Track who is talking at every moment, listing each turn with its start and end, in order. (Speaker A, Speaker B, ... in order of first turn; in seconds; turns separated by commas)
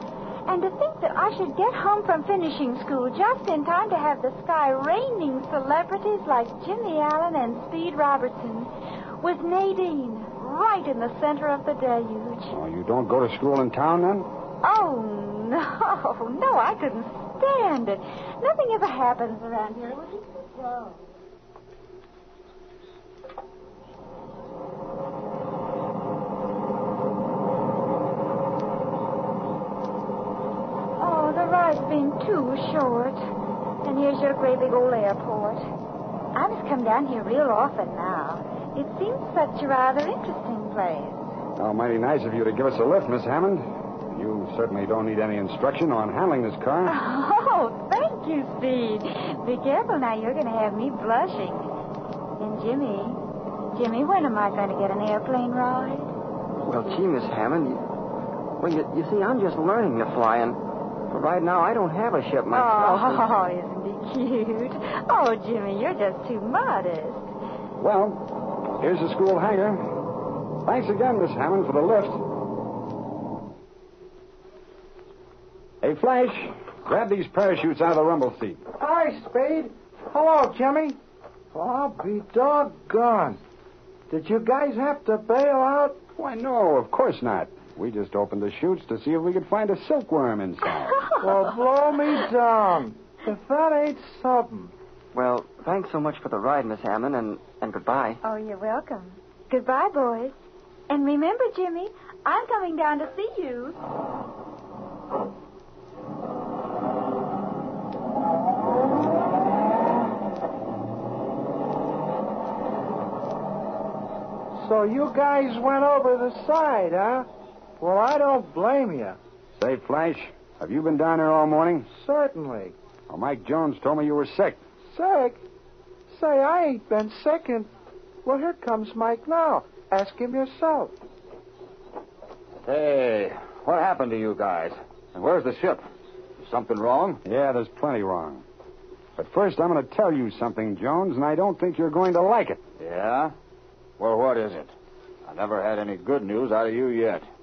Speaker A: 0.5-12.5, Speaker B: 12.5-14.3, Speaker A: 14.6-21.0, Speaker A: 31.0-33.2, Speaker A: 33.8-35.6, Speaker A: 36.3-41.2, Speaker B: 41.6-47.0, Speaker A: 46.9-51.7, Speaker A: 52.4-56.1, Speaker C: 56.6-57.9, Speaker C: 58.6-63.3, Speaker A: 62.5-67.3, Speaker B: 67.8-70.0, Speaker B: 70.6-72.2, Speaker B: 75.8-78.6, Speaker D: 78.8-81.0, Speaker D: 81.5-83.4, Speaker D: 84.1-86.0, Speaker B: 86.2-91.1, Speaker D: 91.2-94.7, Speaker C: 95.1-98.2, Speaker A: 98.2-100.3, Speaker A: 100.9-103.8, Speaker D: 114.6-117.3, Speaker D: 117.8-119.2, Speaker B: 119.6-121.9, Speaker D: 121.9-122.7, Speaker B: 123.1-124.6, Speaker D: 124.9-125.4, Speaker D: 126.1-127.7, Speaker D: 128.2-130.9, Speaker E: 132.6-135.8, Speaker E: 136.4-137.2, Speaker B: 137.2-138.4, Speaker B: 139.2-142.6, Speaker E: 142.8-143.3, Speaker E: 144.0-144.7, Speaker E: 145.3-147.2